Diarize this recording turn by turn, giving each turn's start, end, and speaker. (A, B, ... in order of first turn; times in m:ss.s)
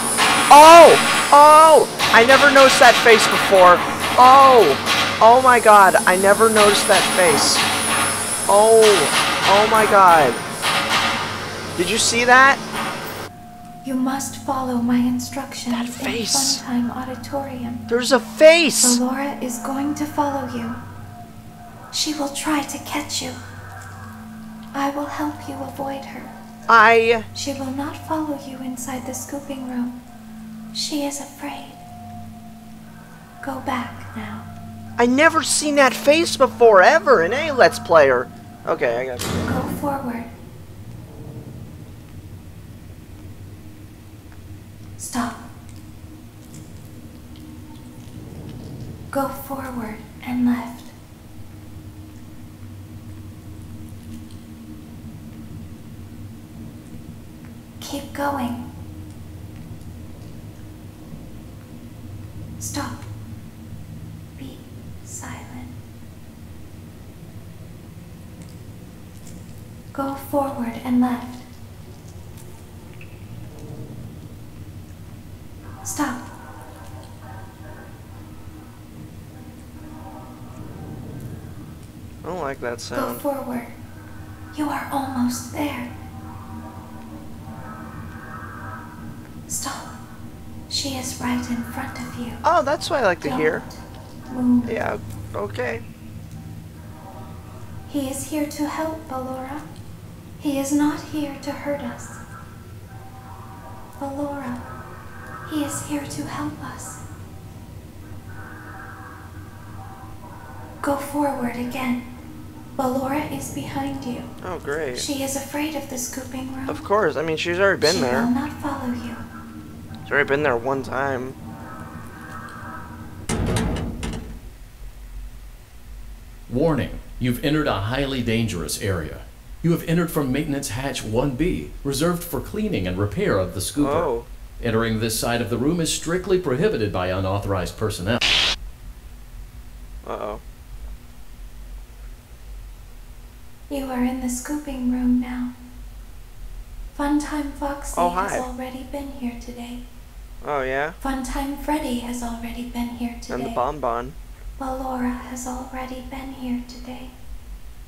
0:00.5-0:07.6 A
0:08.5-0:10.4 A
0:11.8-0:12.6 A
0:13.8-0:17.8 B
0:15.7-0:16.6 A
0:17.9-0:19.0 A
0:18.8-0:20.8 B
0:21.9-0:23.4 B
0:24.7-0:26.3 B
0:26.7-0:27.3 A
0:27.3-0:30.0 B
0:30.7-0:31.8 B
0:33.4-0:34.5 B
0:35.0-0:39.4 A
0:39.4-0:40.3 B
0:45.0-0:45.4 B
0:49.1-0:50.9 B
0:57.8-0:58.7 B
1:02.6-1:03.1 B
1:04.4-1:05.8 B
1:09.9-1:11.5 B
1:15.8-1:16.3 B
1:22.2-1:23.2 A
1:22.9-1:23.8 B
1:24.5-1:25.9 B
1:29.5-1:29.9 B
1:30.7-1:32.4 B
1:32.4-1:33.6 A
1:33.2-1:34.8 B
1:34.6-1:35.8 A
1:37.9-1:39.7 B
1:40.4-1:42.2 B
1:44.0-1:44.6 B
1:45.4-1:47.0 B
1:50.8-1:52.1 B
1:52.8-1:54.3 B
1:54.4-1:55.1 A
1:54.9-1:56.8 B
1:56.7-1:58.3 A
1:57.8-1:59.2 B
2:00.0-2:01.4 A
2:06.5-2:18.2 C
2:13.8-2:14.3 A
2:20.0-2:20.4 A
2:23.7-2:25.5 B
2:26.9-2:29.8 B
2:27.9-2:28.5 A
2:30.4-2:31.0 A
2:31.0-2:33.6 B
2:33.3-2:34.2 A
2:34.6-2:37.2 B